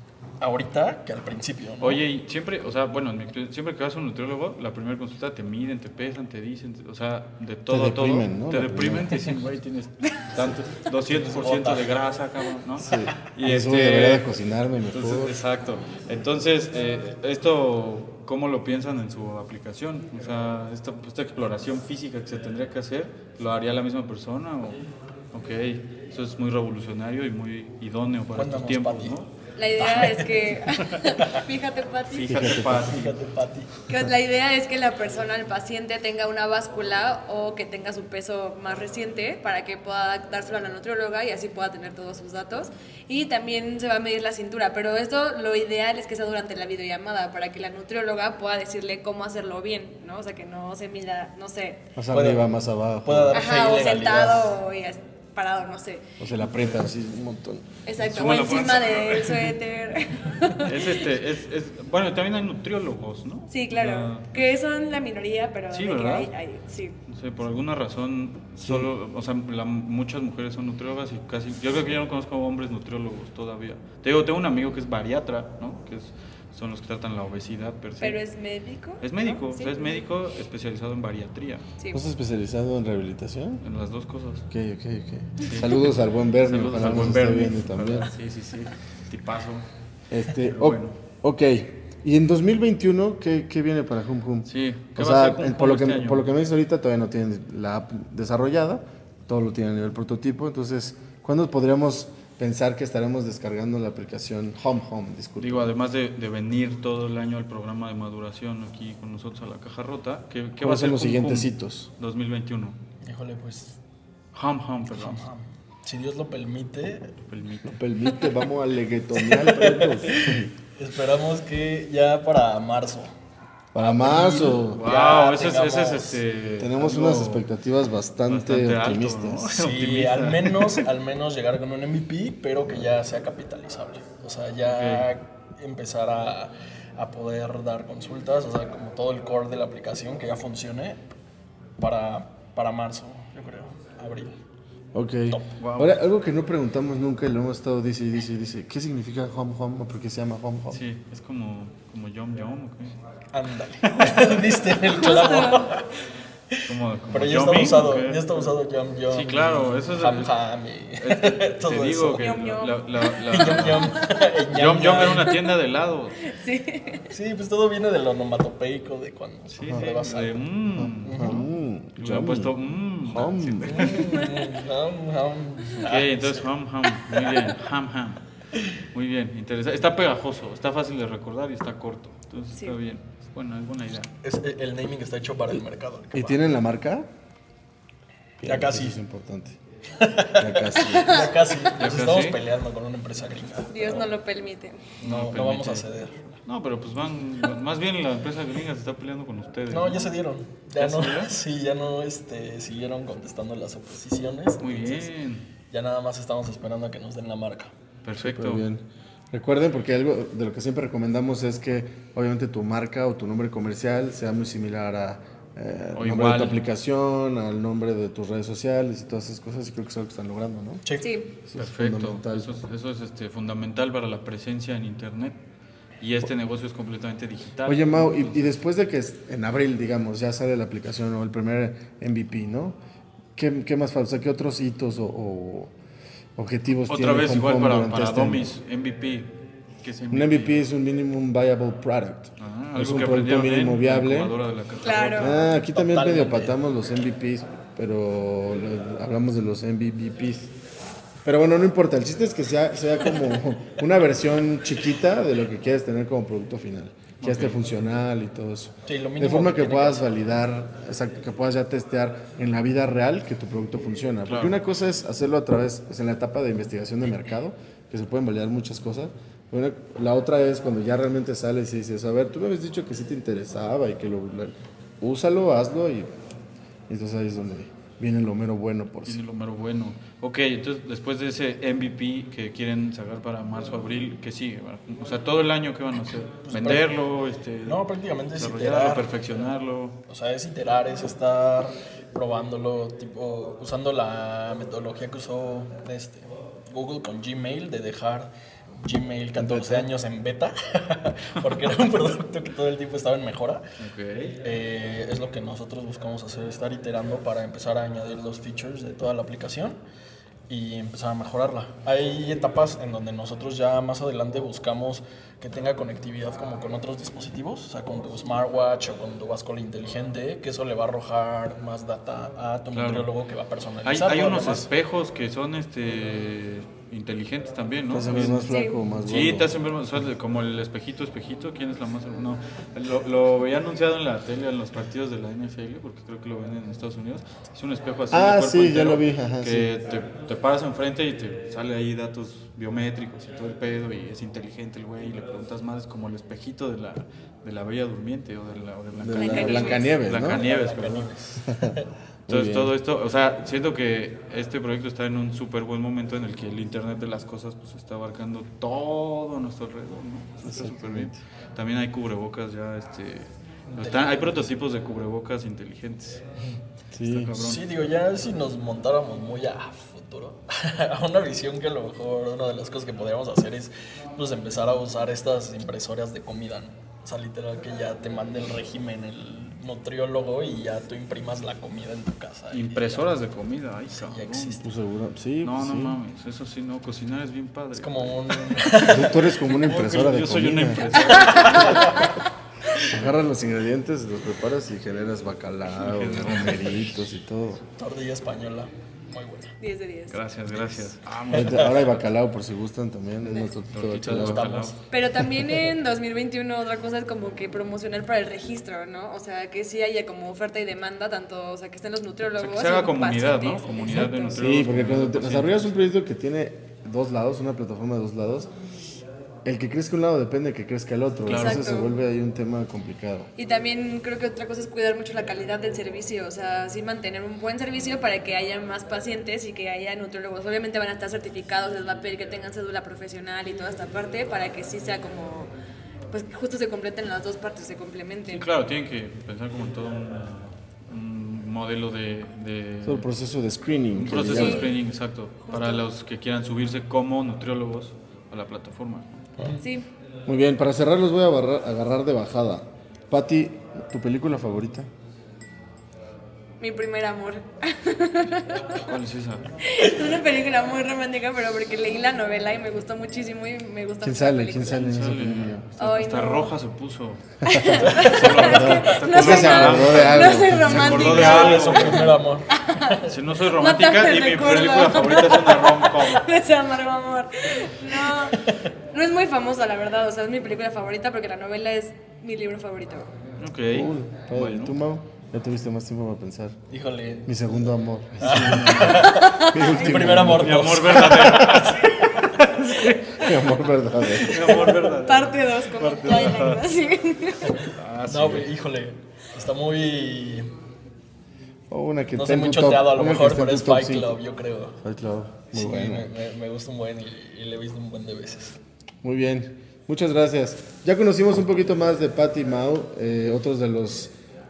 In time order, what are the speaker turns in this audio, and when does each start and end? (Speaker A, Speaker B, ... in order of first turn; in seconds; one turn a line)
Speaker A: 0.4-2.0
Speaker B: 1.8-24.8
Speaker C: 7.7-9.3
Speaker A: 11.0-11.9
Speaker C: 12.8-15.4
Speaker B: 25.3-29.3
Speaker A: 28.3-29.1
Speaker D: 29.6-32.5
Speaker A: 29.8-30.6
Speaker A: 31.1-31.4
Speaker B: 32.1-33.1
Speaker C: 32.3-33.0
Speaker A: 32.8-33.8
Speaker D: 33.9-51.9
Speaker C: 52.0-53.4
Speaker A: 52.1-52.5
Speaker A: 53.0-54.5
Speaker D: 53.3-56.0
Speaker C: 56.2-57.7
Speaker B: 56.4-56.8
Speaker D: 57.8-61.0
Speaker B: 58.0-59.5
Speaker B: 60.6-64.3
Speaker D: 63.5-67.0
Speaker B: 65.7-66.3
Speaker B: 67.1-78.2
Speaker C: 68.6-68.9
Speaker D: 78.0-80.0
Speaker B: 79.0-81.6
Speaker D: 81.8-82.0
Speaker C: 81.9-83.6
Speaker B: 83.6-84.5
Speaker C: 84.5-88.1
Speaker B: 85.4-85.9
Speaker B: 86.5-89.7
Speaker C: 90.1-105.7
Speaker B: 90.3-91.0
Speaker B: 94.5-96.3
Speaker B: 105.4-112.8
Speaker C: 110.6-111.9
Speaker A: 113.0-113.8
Speaker B: 114.3-115.2
Speaker A: 114.9-117.1
Speaker B: 117.3-117.8
Speaker C: 117.7-120.5
Speaker A: 119.2-123.1
Speaker C: 123.7-124.8
Speaker A: 123.8-126.2
Speaker B: 124.7-127.4
Speaker C: 126.6-129.5
Speaker B: 128.2-130.8
Speaker A: 129.5-141.0
Speaker B: 134.7-135.1
Speaker A: 141.8-144.4
Speaker C: 144.9-150.8
Speaker B: 145.6-146.0
Speaker B: 150.7-153.0
Speaker A: 153.3-155.9
Speaker B: 153.8-154.5
Speaker D: 154.8-155.7
Speaker A: 156.5-162.2
Speaker B: 156.6-158.5
Speaker B: 159.1-160.3
Speaker B: 161.0-164.0
Speaker D: 162.2-162.8
Speaker A: 163.3-165.4
Speaker D: 163.3-164.0
Speaker B: 164.5-166.2
Speaker D: 166.2-167.1
Speaker A: 167.1-170.4
Speaker B: 169.5-171.5
Speaker C: 170.8-172.5
Speaker A: 171.0-171.4
Speaker B: 172.0-174.3
Speaker C: 173.1-173.9
Speaker A: 173.7-176.4
Speaker B: 175.8-178.2
Speaker B: 178.9-184.1
Speaker A: 184.2-186.4
Speaker C: 186.1-187.1
Speaker C: 188.4-189.6
Speaker A: 188.4-189.0
Speaker A: 190.0-194.1
Speaker C: 190.3-191.3
Speaker D: 190.9-191.3
Speaker B: 191.7-192.4
Speaker D: 193.7-194.9
Speaker A: 195.0-196.4
Speaker B: 195.0-195.8
Speaker B: 196.4-200.1
Speaker A: 199.7-205.1
Speaker B: 200.8-201.3
Speaker B: 204.6-205.5
Speaker A: 205.7-207.7
Speaker B: 208.0-208.6
Speaker C: 208.2-220.8
Speaker B: 215.9-216.6
Speaker A: 220.8-221.1
Speaker D: 221.0-221.3
Speaker C: 221.4-222.5
Speaker B: 221.6-225.4
Speaker B: 226.0-228.5
Speaker C: 227.7-232.8
Speaker C: 233.3-235.7
Speaker C: 236.3-238.5
Speaker B: 236.9-239.3
Speaker B: 239.8-240.6
Speaker C: 240.1-244.3
Speaker B: 242.4-245.5
Speaker D: 244.8-245.3
Speaker C: 245.2-250.5
Speaker A: 245.7-246.6
Speaker C: 251.2-276.1
Speaker B: 257.2-257.6
Speaker A: 258.9-260.1
Speaker B: 264.3-264.6
Speaker C: 276.9-279.2
Speaker B: 279.0-290.0
Speaker A: 286.4-286.9
Speaker A: 287.6-289.1
Speaker A: 290.1-298.3
Speaker A: 298.8-303.6
Speaker C: 299.4-299.9
Speaker B: 303.8-304.4
Speaker A: 304.4-309.8
Speaker A: 310.5-324.7
Speaker B: 322.7-323.1
Speaker B: 323.8-351.1
Speaker C: 327.9-329.6
Speaker D: 328.4-328.8
Speaker C: 338.1-339.7
Speaker C: 348.9-350.4
Speaker D: 349.1-349.9
Speaker A: 350.1-351.9
Speaker C: 351.4-351.7
Speaker C: 352.3-352.7
Speaker B: 352.3-366.2
Speaker C: 360.4-361.1
Speaker A: 363.7-364.5
Speaker C: 366.9-367.4
Speaker B: 367.0-367.6
Speaker A: 367.4-383.2
Speaker B: 382.5-384.6
Speaker A: 383.9-384.7
Speaker C: 384.6-386.0
Speaker B: 385.4-388.6
Speaker A: 387.7-389.9
Speaker C: 388.9-390.9
Speaker B: 389.6-392.1
Speaker D: 391.2-392.1
Speaker A: 391.5-392.0
Speaker C: 392.8-397.6
Speaker B: 395.7-396.9
Speaker A: 397.8-399.5
Speaker D: 399.6-400.2
Speaker B: 400.1-402.0
Speaker C: 401.3-404.7
Speaker A: 401.4-401.6
Speaker D: 403.2-403.5
Speaker B: 403.7-404.8
Speaker A: 404.0-404.5
Speaker D: 404.9-414.2
Speaker B: 412.4-415.7
Speaker C: 414.2-418.5
Speaker C: 419.4-423.3
Speaker B: 421.2-421.8
Speaker D: 421.2-422.0
Speaker D: 423.4-435.5
Speaker D: 436.1-438.4
Speaker B: 438.3-443.1
Speaker C: 442.8-444.7
Speaker B: 443.9-449.2
Speaker D: 444.1-444.8
Speaker D: 445.5-445.8
Speaker D: 449.6-449.9
Speaker C: 450.2-454.9
Speaker D: 456.6-458.8
Speaker B: 458.8-459.5
Speaker D: 459.6-464.9
Speaker C: 464.0-465.6
Speaker B: 464.7-472.1
Speaker D: 465.8-466.5
Speaker C: 467.4-471.4
Speaker D: 467.4-483.1
Speaker A: 470.9-473.0
Speaker B: 473.0-476.3
Speaker A: 478.1-478.6
Speaker B: 483.4-484.8
Speaker C: 483.7-486.5
Speaker A: 486.7-487.4
Speaker C: 487.2-490.9
Speaker A: 488.2-491.6
Speaker B: 488.2-489.1
Speaker D: 488.9-490.1
Speaker B: 490.1-493.1
Speaker D: 491.6-492.2
Speaker C: 493.1-494.5
Speaker B: 494.2-496.6
Speaker D: 494.4-497.7
Speaker B: 497.6-498.5
Speaker A: 498.1-500.5
Speaker C: 501.7-504.1
Speaker A: 502.1-504.8
Speaker C: 504.8-506.1
Speaker A: 505.5-508.6
Speaker C: 509.0-514.1